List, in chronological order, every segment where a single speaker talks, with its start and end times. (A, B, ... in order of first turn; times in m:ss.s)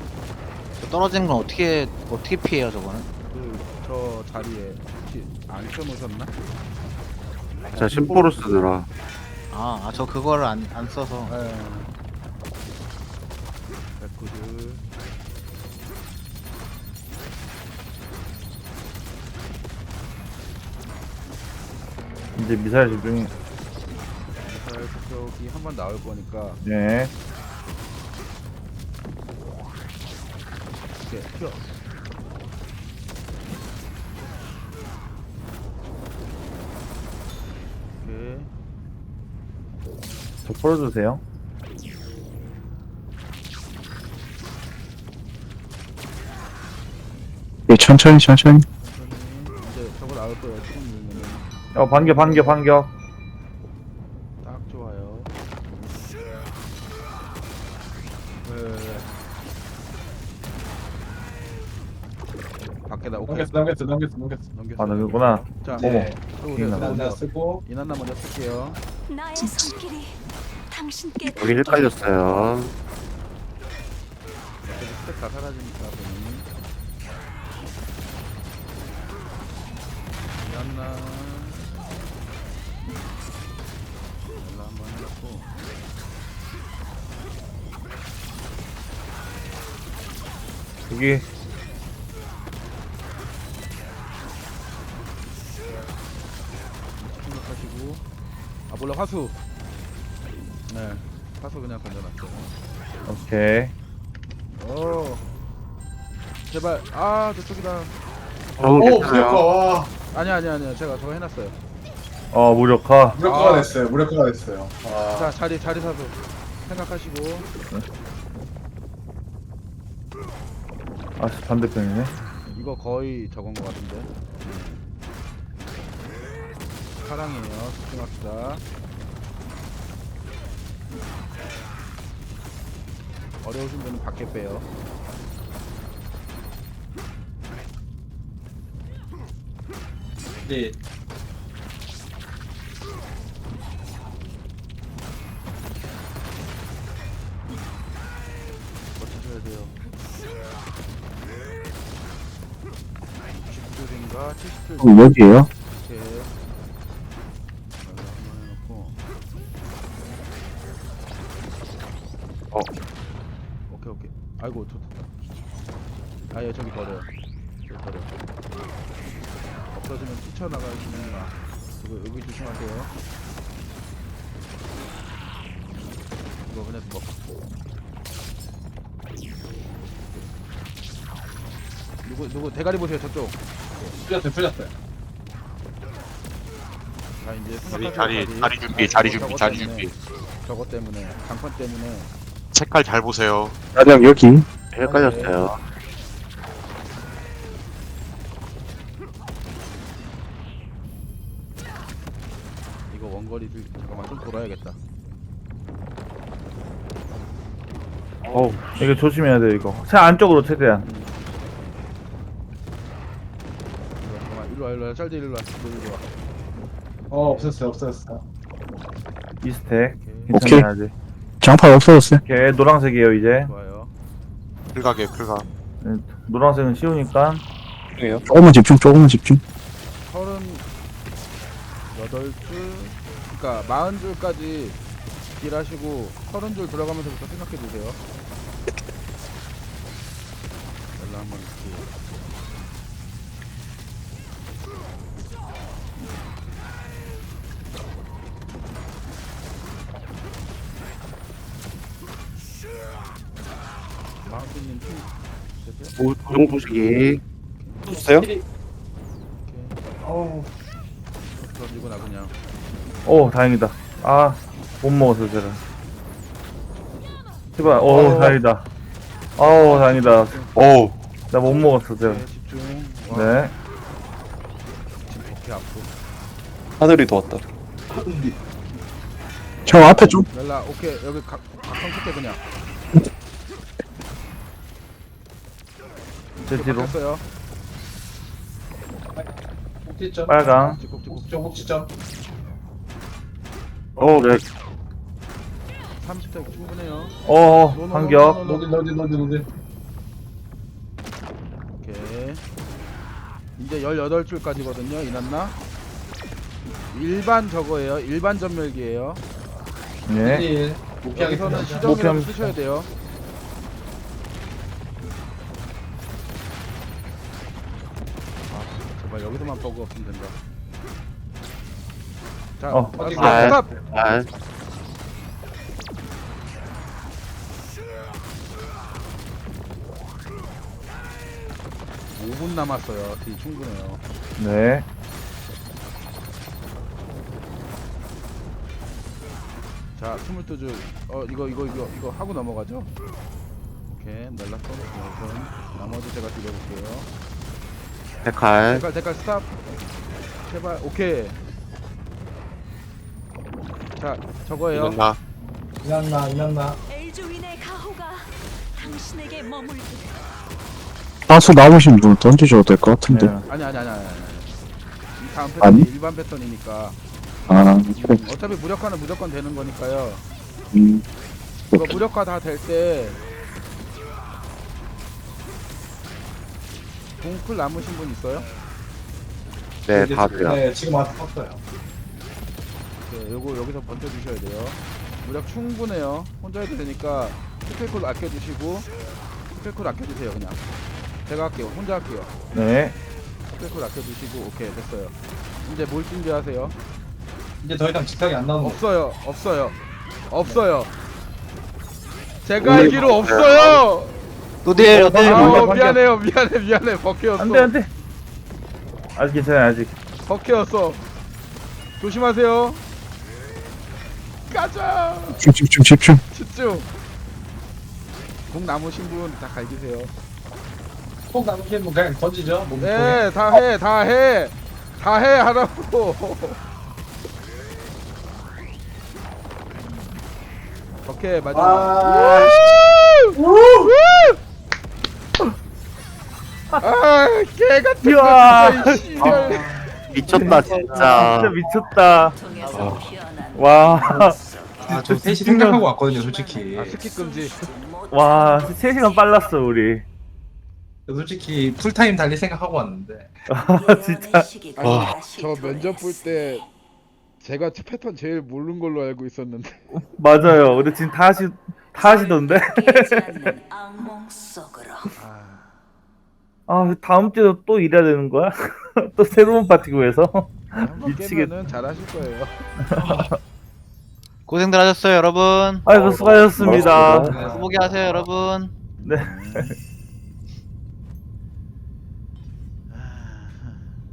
0:00.8-0:03.1 A
0:03.3-0:06.3 B
0:07.6-0:08.5 B
0:07.7-0:08.9 C
0:09.5-0:11.4 A
0:11.2-0:11.9 B
0:14.0-0:14.8 B
0:22.4-0:23.3 D
0:24.4-0:26.6 B
0:26.6-0:27.1 D
0:31.0-0:31.7 B
0:38.0-0:38.5 B
0:40.4-0:41.2 D
0:47.7-0:48.6 E
0:48.8-0:52.6 B
0:51.7-0:52.9 D
0:54.4-0:55.3 B
0:58.4-0:59.1 B
1:02.6-1:03.6 B
1:03.2-1:04.4 F
1:04.5-1:08.8 B
1:04.8-1:07.0 D
1:05.7-1:06.2 F
1:06.7-1:07.6 F
1:09.1-1:10.2 G
1:10.7-1:11.6 G
1:11.3-1:12.7 C
1:11.6-1:12.1 B
1:14.6-1:16.5 B
1:20.4-1:21.7 B
1:24.4-1:25.5 B
1:30.9-1:31.2 D
1:37.0-1:38.0 B
1:38.7-1:39.4 B
1:40.7-1:42.5 B
1:43.0-1:43.7 D
1:44.6-1:45.2 B
1:46.5-1:47.9 B
1:48.6-1:49.5 C
1:48.6-1:49.9 F
1:50.1-1:51.6 B
1:52.3-1:53.2 D
1:53.2-1:55.3 F
1:53.2-1:53.8 B
1:55.1-1:57.5 B
2:01.2-2:02.1 D
2:02.4-2:04.8 B
2:07.0-2:08.6 B
2:13.4-2:14.7 B
2:20.4-2:20.8 F
2:29.0-2:29.8 B
2:33.2-2:35.1 B
2:34.8-2:35.5 E
2:35.7-2:36.4 B
2:37.8-2:39.0 B
2:43.7-2:44.9 B
2:46.3-2:47.1 B
2:47.6-2:48.1 B
2:49.7-2:52.9 B
2:56.4-2:57.2 B
3:02.0-3:04.0 B
3:04.0-3:04.7 F
3:07.2-3:09.9 B
3:07.7-3:09.9 H
3:10.4-3:12.1 B
3:12.5-3:13.6 H
3:13.8-3:14.4 E
3:14.7-3:15.5 C
3:14.8-3:15.4 B
3:22.9-3:24.8 B
3:28.3-3:30.9 D
3:30.5-3:31.3 B
3:34.0-3:36.1 B
3:37.1-3:38.2 F
3:37.2-3:37.6 B
3:39.4-3:40.9 D
3:39.9-3:40.4 B
3:40.3-3:40.6 E
3:41.4-3:42.2 E
3:42.2-3:43.5 D
3:43.2-3:43.9 B
3:44.8-3:45.4 H
3:45.8-3:47.4 D
3:48.0-3:48.2 I
3:48.2-3:49.4 E
3:50.1-3:50.6 B
3:51.9-3:54.8 B
3:55.4-3:58.0 B
4:01.0-4:01.9 B
4:14.2-4:16.0 B
4:16.0-4:17.2 C
4:17.6-4:17.9 B
4:17.9-4:18.3 I
4:17.9-4:18.4 F
4:19.4-4:19.8 B
4:20.0-4:20.5 F
4:21.4-4:22.4 B
4:23.0-4:25.6 D
4:27.6-4:28.6 D
4:27.6-4:28.4 B
4:29.4-4:30.4 D
4:29.5-4:30.7 B
4:30.6-4:30.9 I
4:31.3-4:32.2 D
4:31.9-4:33.5 B
4:33.1-4:33.5 D
4:35.0-4:35.9 B
4:36.8-4:37.4 I
4:39.6-4:40.2 E
4:40.3-4:42.4 B
4:46.4-4:47.2 B
4:46.4-4:46.9 D
4:49.1-4:50.4 F
4:50.3-4:50.8 D
4:50.4-4:51.8 B
4:51.0-4:51.9 F
4:54.0-4:54.4 C
4:56.0-4:57.2 B
4:57.2-4:58.4 D
4:57.7-4:58.7 B
4:58.4-4:59.4 F
5:01.8-5:02.4 B
5:03.6-5:05.6 B
5:06.9-5:09.2 B
5:10.1-5:10.4 D
5:10.2-5:12.0 F
5:11.1-5:12.9 B
5:11.7-5:12.5 D
5:18.5-5:20.4 B
5:22.6-5:23.8 B
5:22.7-5:23.5 D
5:23.0-5:24.0 F
5:23.2-5:24.3 C
5:32.1-5:34.0 B
5:34.4-5:34.9 D
5:39.9-5:42.9 B
5:43.9-5:47.1 B
5:48.2-5:48.8 C
5:48.7-5:49.5 B
5:50.4-5:51.4 B
5:53.9-5:55.0 B
5:54.7-5:55.2 C
5:55.8-5:56.8 F
5:56.9-6:00.2 G
6:01.3-6:03.3 E
6:03.1-6:03.4 D
6:03.5-6:04.5 B
6:05.2-6:07.0 B
6:05.6-6:05.9 E
6:07.5-6:08.2 E
6:08.0-6:10.2 B
6:10.7-6:11.0 E
6:11.7-6:12.0 E
6:11.7-6:13.2 B
6:17.2-6:18.5 B
6:19.9-6:20.6 C
6:19.9-6:21.6 F
6:23.0-6:28.9 B
6:29.5-6:30.6 B
6:31.2-6:32.3 B
6:32.5-6:33.0 D
6:33.5-6:36.8 B
6:37.6-6:38.8 F
6:38.6-6:39.8 B
6:40.3-6:40.9 B
6:42.4-6:44.1 B
6:42.6-6:43.8 C
6:42.7-6:42.9 F
6:44.6-6:45.7 A
6:44.9-6:46.0 D
6:45.2-6:47.7 B
6:47.4-6:47.9 D
6:49.2-6:49.9 D
6:50.2-6:51.0 B
6:52.0-6:52.8 B
6:54.5-6:55.5 B
6:55.4-6:56.2 E
6:56.3-6:56.9 B
6:58.5-7:00.1 B
7:01.3-7:03.2 F
7:02.8-7:06.6 B
7:11.0-7:13.4 B
7:11.5-7:12.6 F
7:13.4-7:13.9 F
7:13.9-7:14.4 B
7:16.8-7:19.8 B
7:18.0-7:19.2 D
7:19.2-7:20.4 F
7:19.2-7:19.5 C
7:20.1-7:21.5 C
7:20.3-7:22.4 D
7:22.7-7:23.0 C
7:22.7-7:23.0 I
7:23.5-7:25.9 D
7:24.8-7:27.0 F
7:26.8-7:27.6 B
7:28.1-7:30.0 D
7:31.1-7:33.3 F
7:33.5-7:34.5 D
7:34.0-7:35.9 G
7:34.8-7:35.2 I
7:35.3-7:36.7 B
7:37.4-7:39.8 B
7:39.9-7:43.6 D
7:42.9-7:45.1 G
7:45.1-7:45.8 B
7:46.7-7:51.5 D
7:50.8-7:53.2 B
7:52.9-7:53.4 D
7:54.5-7:55.9 A
7:55.9-7:57.4 D
7:56.0-7:57.4 I
7:56.6-7:58.0 F
7:56.9-7:58.2 B
7:57.4-7:58.7 A
7:59.0-7:59.8 B
7:59.0-7:59.7 D
8:02.9-8:03.9 B